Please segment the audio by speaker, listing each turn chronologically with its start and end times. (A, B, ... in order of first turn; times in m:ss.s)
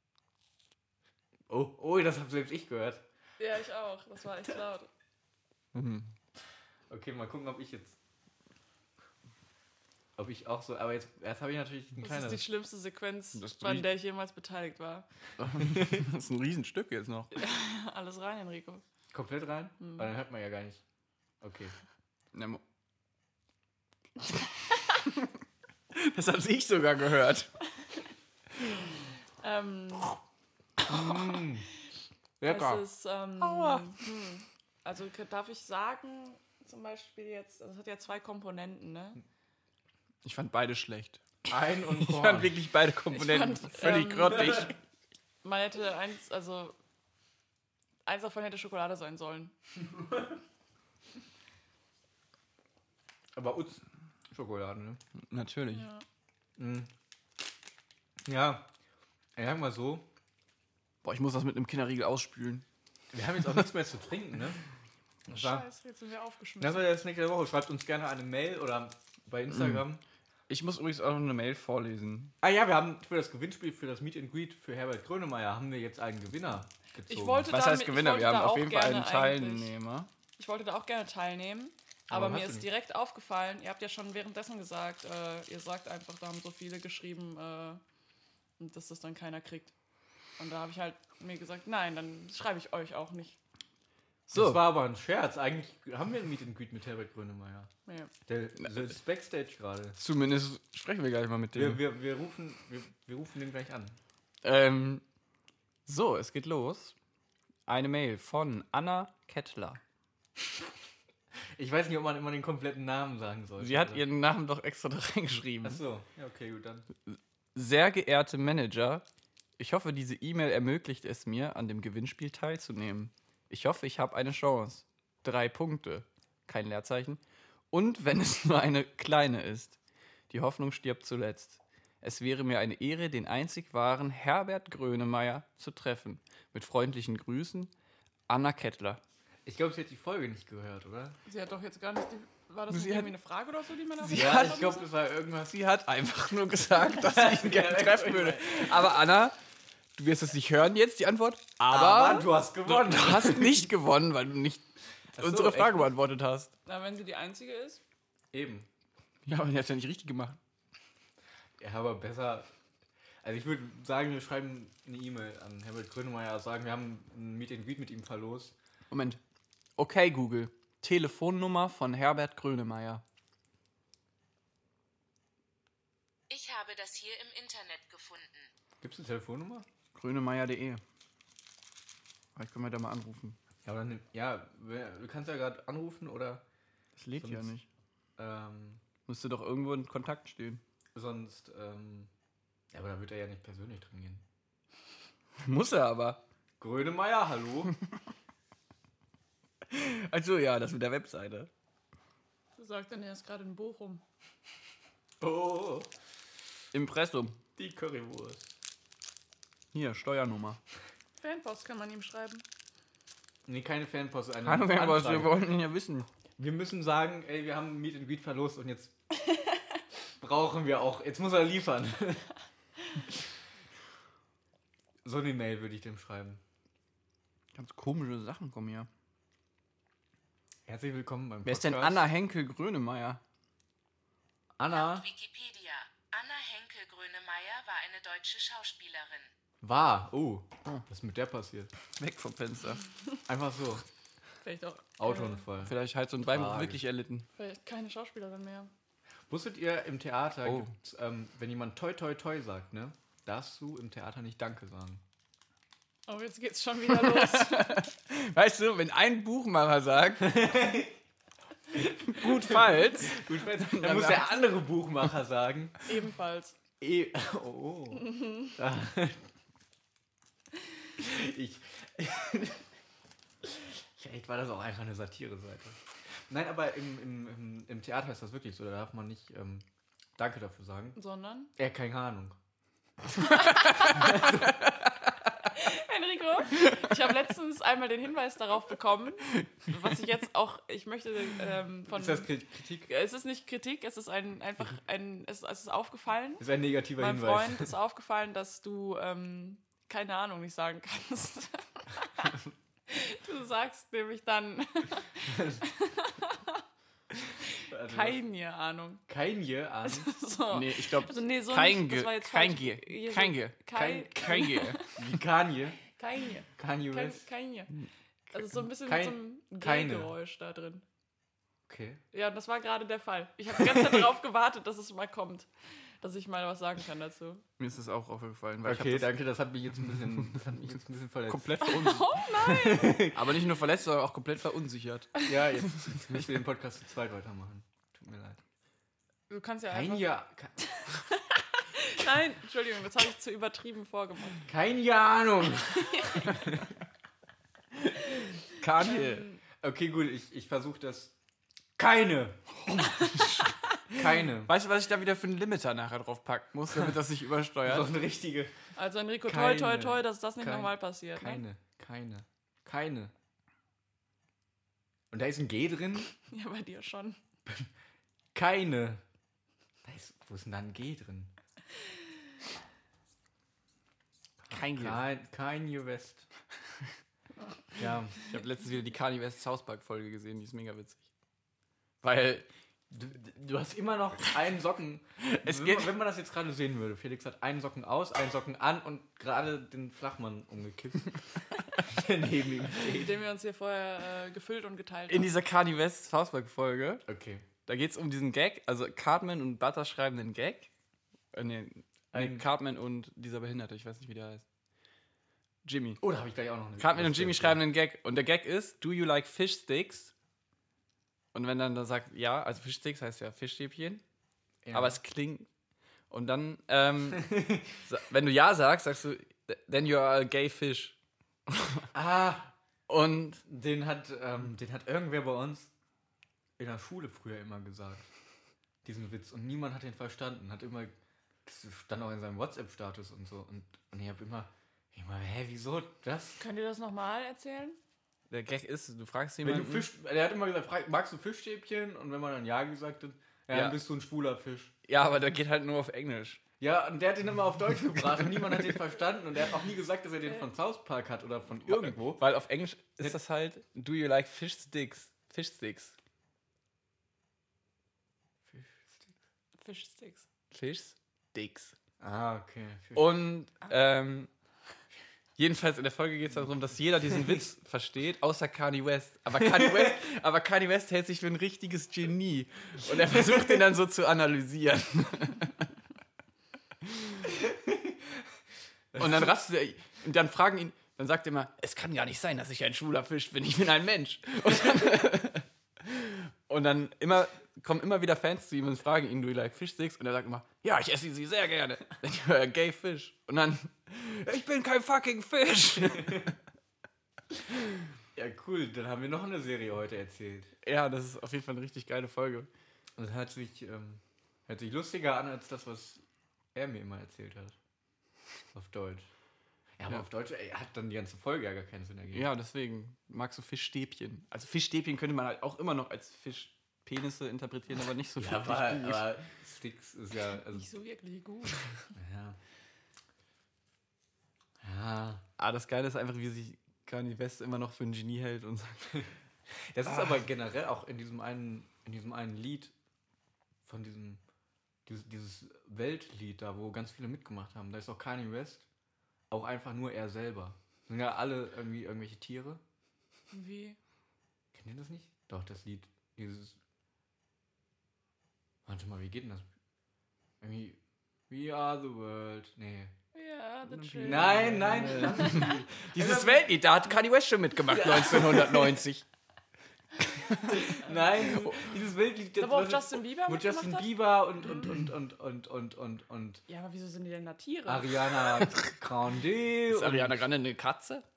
0:01.5-0:03.0 A
0:03.4-0:04.9 B
0:05.7-0:06.1 C
0:06.9-0:08.0 A
0:10.2-0:12.4 A
0:12.0-0:15.1 B
0:13.3-0:13.9 C
0:15.4-0:17.3 C
0:17.3-0:18.8 B
0:19.1-0:20.8 A
0:19.8-0:20.1 B
0:21.4-0:21.7 A
0:22.3-0:22.6 C
0:25.9-0:27.5 C
0:29.4-0:30.2 B
0:30.8-0:31.7 A
0:32.4-0:32.8 A
0:32.4-0:39.2 B
0:33.4-0:33.9 C
0:40.2-0:41.2 C
0:41.5-0:42.6 A
0:41.9-0:44.7 C
0:43.1-0:44.7 B
0:45.4-0:46.8 B
0:48.0-0:49.5 B
0:53.3-0:55.0 A
0:55.2-0:55.8 C
0:55.7-0:56.0 B
0:56.6-0:56.9 A
0:58.2-0:58.7 A
0:59.4-1:00.0 A
1:01.0-1:02.6 C
1:03.1-1:04.6 A
1:05.3-1:05.6 A
1:05.3-1:06.9 B
1:06.6-1:10.0 A
1:10.5-1:12.3 C
1:12.4-1:17.5 A
1:17.1-1:19.7 B
1:17.5-1:20.1 C
1:20.4-1:27.8 B
1:22.1-1:22.7 A
1:28.6-1:29.7 B
1:30.4-1:33.4 B
1:34.3-1:34.6 C
1:34.3-1:37.7 A
1:37.8-1:38.1 B
1:38.3-1:40.0 A
1:40.0-1:41.8 C
1:41.5-1:44.0 A
1:44.4-1:45.0 C
1:45.8-1:46.9 C
1:47.7-1:49.8 C
1:51.6-1:54.0 A
1:53.6-1:55.8 C
1:55.6-1:56.9 A
1:57.1-1:59.0 C
1:59.6-2:07.2 C
2:07.7-2:09.8 C
2:10.3-2:17.7 C
2:18.3-2:19.0 C
2:19.4-2:21.2 A
2:21.2-2:24.8 B
2:22.7-2:23.1 C
2:24.0-2:24.8 C
2:24.1-2:25.6 A
2:25.5-2:29.4 C
2:26.9-2:28.9 A
2:30.0-2:34.6 C
2:31.7-2:33.7 A
2:35.1-2:35.9 A
2:35.2-2:36.5 C
2:36.6-2:37.8 B
2:38.3-2:38.7 A
2:39.2-2:40.4 C
2:41.6-2:42.5 A
2:43.2-2:48.6 A
2:48.9-2:49.2 C
2:49.8-2:53.0 C
2:56.3-2:58.5 D
2:58.8-2:59.7 A
2:59.9-3:00.8 C
3:02.4-3:03.4 C
3:03.6-3:06.4 A
3:07.0-3:07.6 C
3:07.2-3:07.5 A
3:08.2-3:08.8 A
3:09.0-3:10.6 C
3:10.9-3:12.1 A
3:12.7-3:14.2 A
3:15.4-3:16.2 C
3:16.6-3:17.7 A
3:19.7-3:21.5 C
3:22.6-3:24.0 B
3:25.2-3:25.9 A
3:26.7-3:27.4 C
3:27.6-3:28.5 A
3:29.7-3:30.6 C
3:31.2-3:32.4 B
3:33.4-3:35.4 A
3:34.4-3:36.1 C
3:36.4-3:38.9 A
3:40.2-3:42.3 A
3:45.0-3:46.4 A
3:47.5-3:48.9 C
3:50.7-3:52.1 A
3:51.4-3:53.2 C
3:54.6-3:55.1 A
3:54.7-3:59.3 D
3:59.6-4:01.7 A
4:02.0-4:02.8 C
4:03.3-4:03.8 A
4:04.4-4:05.4 B
4:05.0-4:05.8 A
4:05.6-4:07.2 C
4:06.3-4:06.8 A
4:07.4-4:08.7 B
4:09.3-4:15.0 A
4:10.4-4:10.7 C
4:16.1-4:17.8 B
4:17.0-4:20.4 C
4:20.2-4:21.0 A
4:21.7-4:25.8 A
4:22.1-4:24.3 C
4:25.8-4:26.6 B
4:26.8-4:29.2 A
4:31.0-4:32.6 A
4:33.4-4:39.6 A
4:40.2-4:41.0 A
4:41.0-4:41.5 B
4:41.6-4:42.4 A
4:43.3-4:44.2 B
4:44.0-4:44.5 A
4:45.5-4:52.3 B
4:51.9-4:52.9 A
4:52.8-5:02.3 B
4:56.4-4:57.7 A
5:02.9-5:06.6 B
5:05.3-5:05.6 A
5:07.6-5:09.0 B
5:07.7-5:08.2 A
5:09.1-5:10.1 A
5:09.8-5:14.9 B
5:10.5-5:13.6 C
5:13.7-5:15.8 A
5:14.1-5:14.8 C
5:16.0-5:17.7 B
5:16.6-5:17.2 A
5:18.3-5:20.8 B
5:18.8-5:20.1 A
5:21.7-5:22.0 A
5:22.1-5:25.5 B
5:23.7-5:24.0 A
5:26.0-5:27.4 B
5:27.6-5:29.2 C
5:28.6-5:31.6 A
5:30.3-5:30.7 C
5:31.3-5:32.2 C
5:31.6-5:33.1 B
5:32.4-5:33.2 A
5:33.0-5:35.7 C
5:35.2-5:38.4 A
5:39.3-5:44.5 B
5:39.7-5:40.6 A
5:44.5-5:46.6 A
5:45.7-5:46.4 B
5:48.0-5:49.3 C
5:49.0-5:49.4 B
5:49.6-5:51.1 A
5:51.8-5:52.4 A
5:53.9-5:54.5 A
5:54.4-5:57.9 C
5:57.6-5:58.5 A
5:58.8-6:01.4 B
5:59.2-6:03.1 A
6:05.1-6:06.1 A
6:06.3-6:07.2 B
6:08.3-6:09.0 A
6:09.8-6:11.3 A
6:14.5-6:15.0 C
6:14.7-6:16.3 A
6:17.8-6:18.2 A
6:18.2-6:21.0 C
6:22.0-6:22.5 C
6:22.9-6:31.1 A
6:25.2-6:25.9 C
6:31.8-6:33.1 A
6:32.9-6:35.3 B
6:35.1-6:37.0 C
6:37.0-6:37.4 A
6:37.6-6:40.7 C
6:41.3-6:44.4 C
6:42.1-6:42.5 A
6:45.6-6:46.0 C
6:46.0-6:47.6 A
6:46.8-6:50.1 C
6:51.3-6:54.0 C
6:54.6-6:55.0 A
6:54.7-6:55.5 C
6:56.1-7:01.0 C
6:57.2-6:57.6 A
7:01.5-7:01.9 C
7:01.9-7:02.5 A
7:02.9-7:03.4 C
7:03.4-7:05.7 A
7:06.6-7:08.1 A
7:08.8-7:16.4 A
7:16.4-7:17.8 B
7:18.3-7:19.9 C
7:19.4-7:24.7 A
7:23.5-7:23.8 C
7:24.9-7:26.4 C
7:26.6-7:32.2 A
7:31.6-7:35.9 C
7:38.5-7:39.1 A
7:39.6-7:40.2 B
7:40.5-7:41.8 C
7:42.0-7:43.2 A
7:42.9-7:44.3 C
7:45.4-7:55.6 C
7:49.4-7:49.9 A
7:58.9-7:59.3 A
7:58.9-8:16.3 C
8:15.9-8:16.3 A
8:18.1-8:20.5 A
8:20.6-8:22.5 C
8:23.0-8:26.0 A
8:26.5-8:27.6 A
8:28.5-8:29.1 A
8:29.8-8:32.3 A
8:32.1-8:39.1 C
8:38.2-8:40.7 A
8:40.5-8:41.7 B
8:42.0-8:42.4 A
8:44.6-8:45.2 A
8:45.4-8:49.1 C
8:49.7-8:52.7 A
8:53.6-8:54.2 A
8:54.8-8:58.6 A
8:59.3-9:02.6 A
9:03.3-9:03.8 B
9:04.5-9:06.6 A
9:08.6-9:09.4 A
9:10.4-9:12.9 A
9:13.1-9:15.4 B
9:13.7-9:19.0 C
9:14.0-9:16.5 A
9:17.7-9:18.8 A
9:20.3-9:20.6 C
9:20.5-9:26.4 A
9:22.4-9:24.0 B
9:26.5-9:28.0 B
9:27.6-9:30.2 A
9:29.7-9:31.0 C